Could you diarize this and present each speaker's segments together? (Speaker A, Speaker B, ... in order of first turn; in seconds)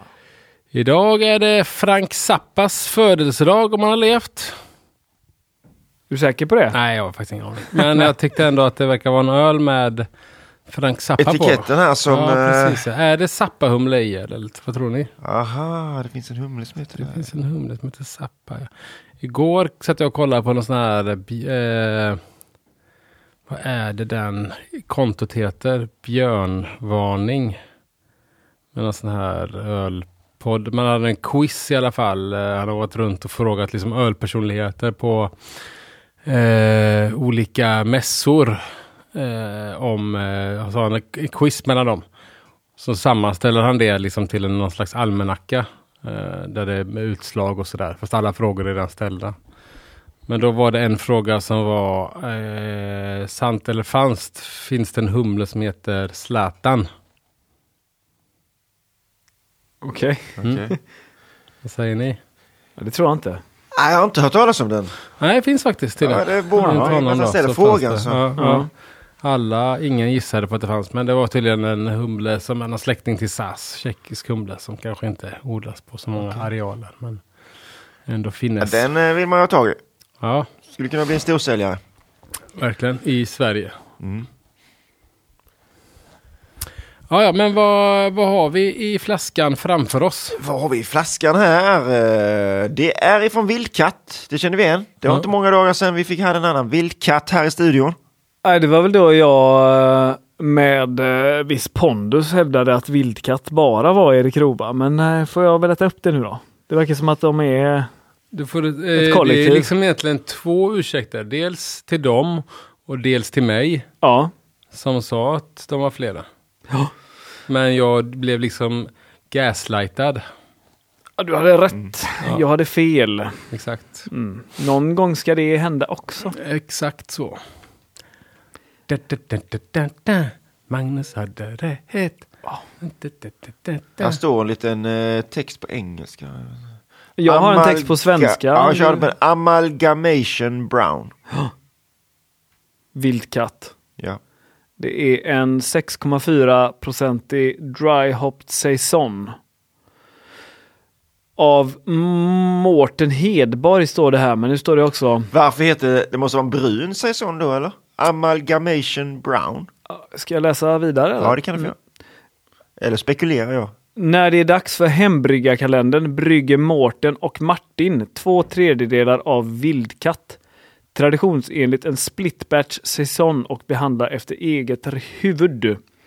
Speaker A: 0.7-4.5, 6.7-10.1, 10.7-15.1, 17.0-18.7, 19.2-22.2, 23.5-27.6, 28.7-35.3, 36.2-38.6, 39.1-42.0, 42.8-49.3, 50.3-56.9, 61.6-62.2, 65.2-68.7, 69.2-77.2, 78.1-78.9, 80.2-80.5, 82.5-83.7, 87.1-90.4, 108.3-113.9, 114.7-116.2, 117.5-120.2, 123.5-124.1, 126.3-127.4, 128.9-132.2, 132.8-134.2
Speaker B: 6.1-6.8, 7.8-8.0, 59.8-60.8, 62.8-63.4, 68.4-68.7, 98.4-107.9, 108.9-109.7, 114.0-114.3, 121.2-123.4, 124.1-126.3, 137.2-139.1, 142.9-143.7, 144.8-149.3, 151.4-155.3, 159.9-161.7, 163.9-170.4, 170.9-175.8
Speaker C: 11.2-12.8, 15.2-17.3, 60.4-60.7, 63.7-64.9, 66.0-68.3, 76.1-76.5, 78.6-79.8, 80.7-81.8, 84.0-84.3, 90.3-98.0, 134.0-136.6, 137.2-141.1, 155.3-159.7, 161.2-161.7, 162.8-163.7